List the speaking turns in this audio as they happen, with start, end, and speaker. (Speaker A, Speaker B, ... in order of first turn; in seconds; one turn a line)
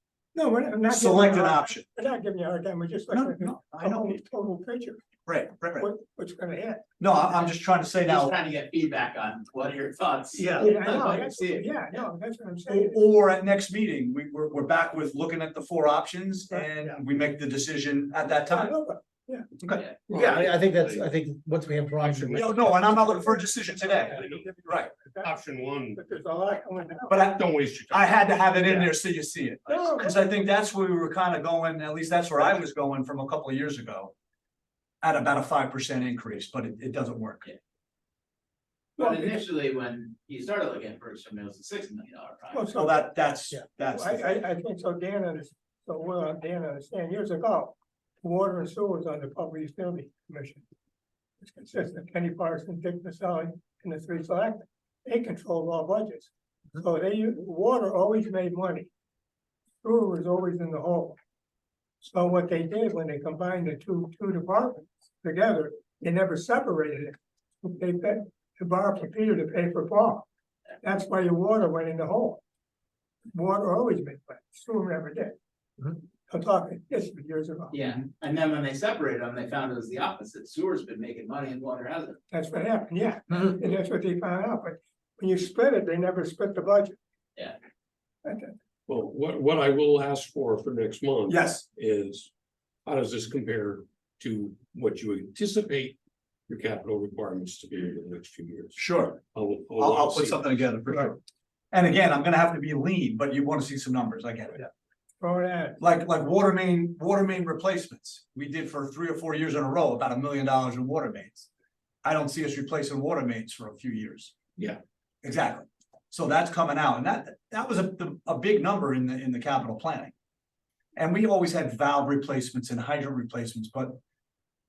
Speaker A: 0.3-5.0
Speaker B: 0.9-1.9
Speaker B: 3.1-4.2
Speaker B: 5.2-5.9
Speaker A: 5.8-6.8
Speaker B: 7.0-8.3
Speaker C: 8.0-12.0
Speaker D: 10.3-10.7
Speaker A: 10.5-13.0
Speaker B: 12.7-18.7
Speaker A: 18.5-19.5
Speaker C: 19.7-20.0
Speaker A: 20.1-20.4
Speaker D: 20.1-22.7
Speaker E: 20.1-21.0
Speaker E: 22.0-26.0
Speaker B: 22.3-24.9
Speaker A: 23.3-25.3
Speaker A: 25.9-27.2
Speaker B: 27.1-34.1
Speaker E: 27.2-28.9
Speaker A: 29.7-30.1
Speaker B: 35.0-37.5
Speaker C: 39.0-42.7
Speaker A: 39.0-39.3
Speaker A: 42.5-50.6
Speaker B: 42.7-44.4
Speaker A: 51.4-58.9
Speaker A: 59.8-61.1
Speaker A: 62.0-70.3
Speaker A: 70.8-72.4
Speaker A: 73.3-75.3
Speaker A: 76.3-77.8
Speaker C: 77.7-82.2
Speaker A: 82.3-87.0
Speaker A: 88.2-88.5
Speaker E: 88.9-92.3
Speaker E: 92.8-100.7
Speaker B: 98.8-99.2
Speaker B: 99.8-101.2
Speaker B: 101.7-104.6
Speaker A: 105.2-105.8
Speaker B: 105.8-111.5
Speaker B: 112.0-114.3
Speaker B: 115.2-120.1
Speaker B: 121.0-124.0